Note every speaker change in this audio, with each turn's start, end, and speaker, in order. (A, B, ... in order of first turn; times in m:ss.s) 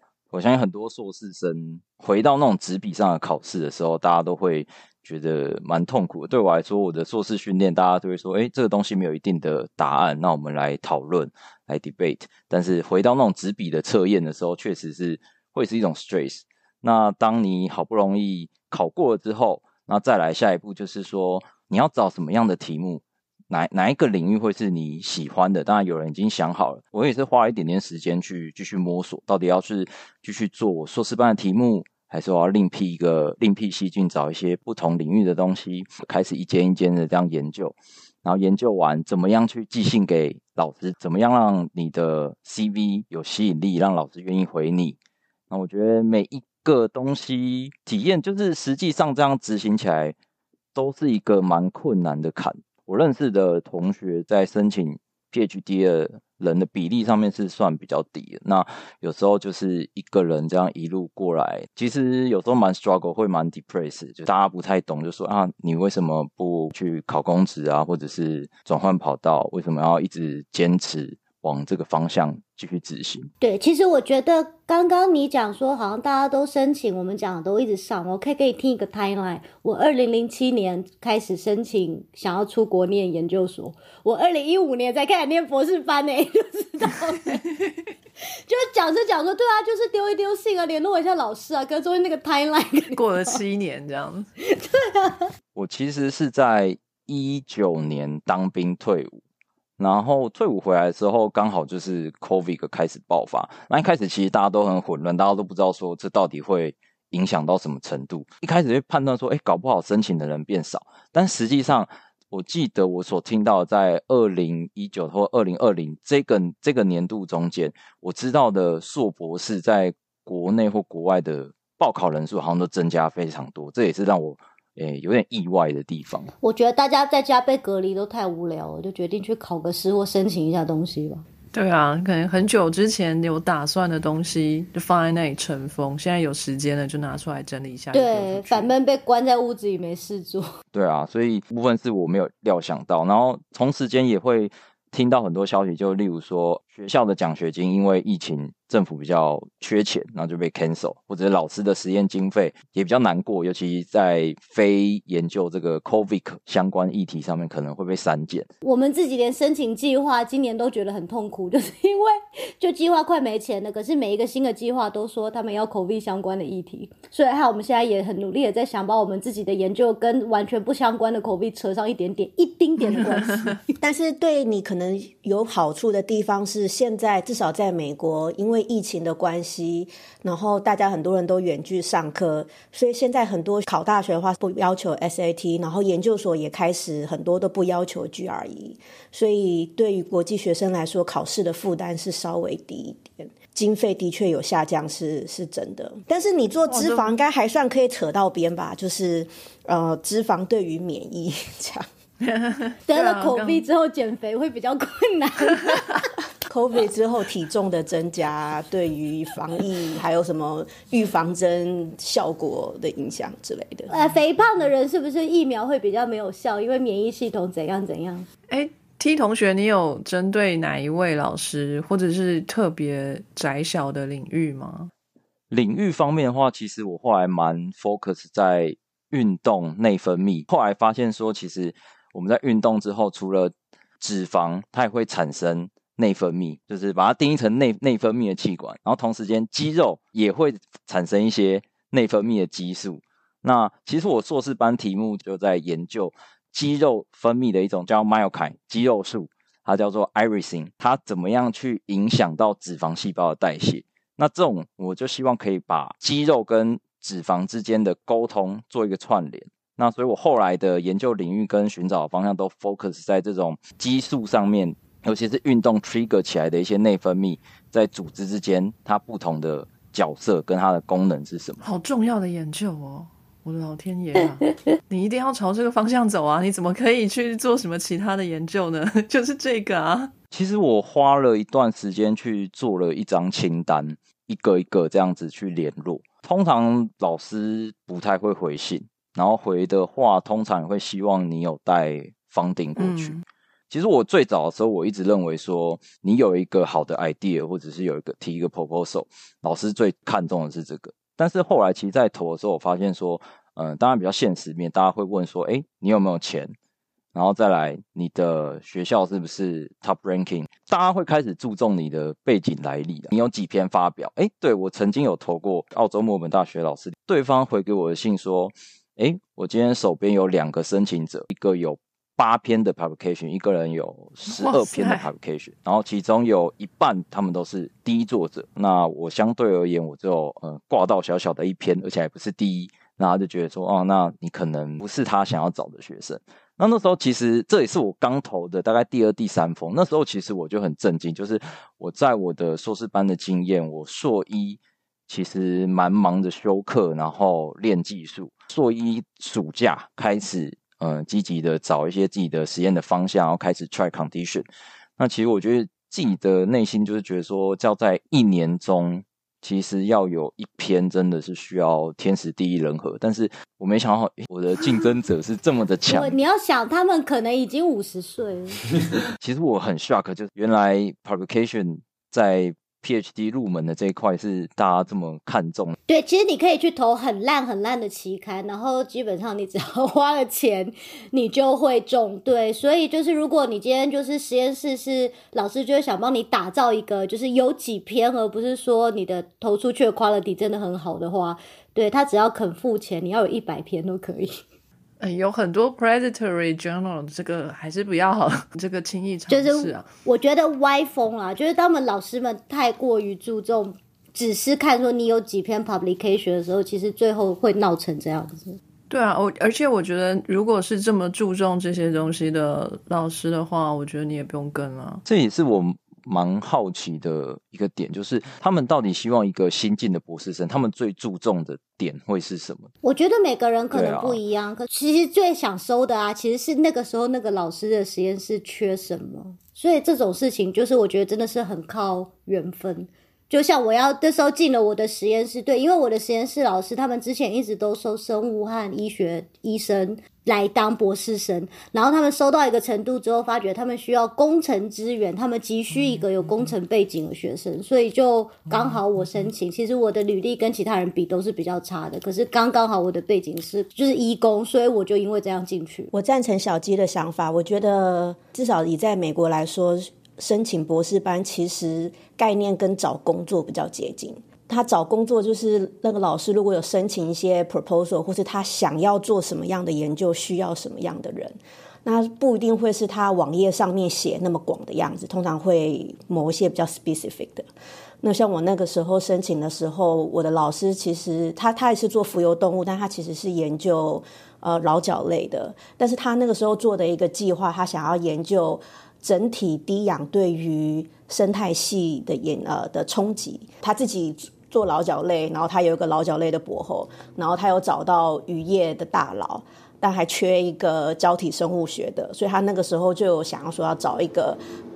0:00.3-0:45.0 A
0:45.5-0:50.1 A
0:50.7-1:13.3 A
1:13.4-1:27.4 B
1:28.5-1:33.4 B
1:32.9-1:34.3 C
1:34.4-1:35.3 B
1:35.5-1:39.2 A
1:39.8-2:06.3 A
2:06.4-2:11.2 B
2:11.5-2:18.7 C
2:17.9-2:20.5 B
2:20.7-2:38.5 A
2:38.6-2:53.6 B
2:53.0-2:53.2 D
2:53.8-3:21.9 D
3:16.7-3:17.1 C
3:22.2-3:23.6 C
3:22.9-3:25.9 B
3:26.4-3:33.9 D
3:33.9-3:38.3 B
3:38.5-3:44.9 C
3:45.5-4:31.6 A
4:31.6-4:40.1 C
4:40.3-4:53.2 A
4:52.8-4:53.2 C
4:53.7-5:06.5 A
5:07.1-5:54.5 A
5:24.3-5:25.1 C
5:55.0-6:06.2 A
6:05.9-6:08.6 B
6:09.2-6:15.7 A
6:15.9-6:34.4 B
6:35.0-6:39.9 C
6:39.3-6:48.6 B
6:48.9-6:55.0 C
6:55.0-7:02.7 A
7:02.8-7:35.9 B
7:03.7-7:04.2 A
7:35.9-7:57.5 D
7:58.0-8:24.4 D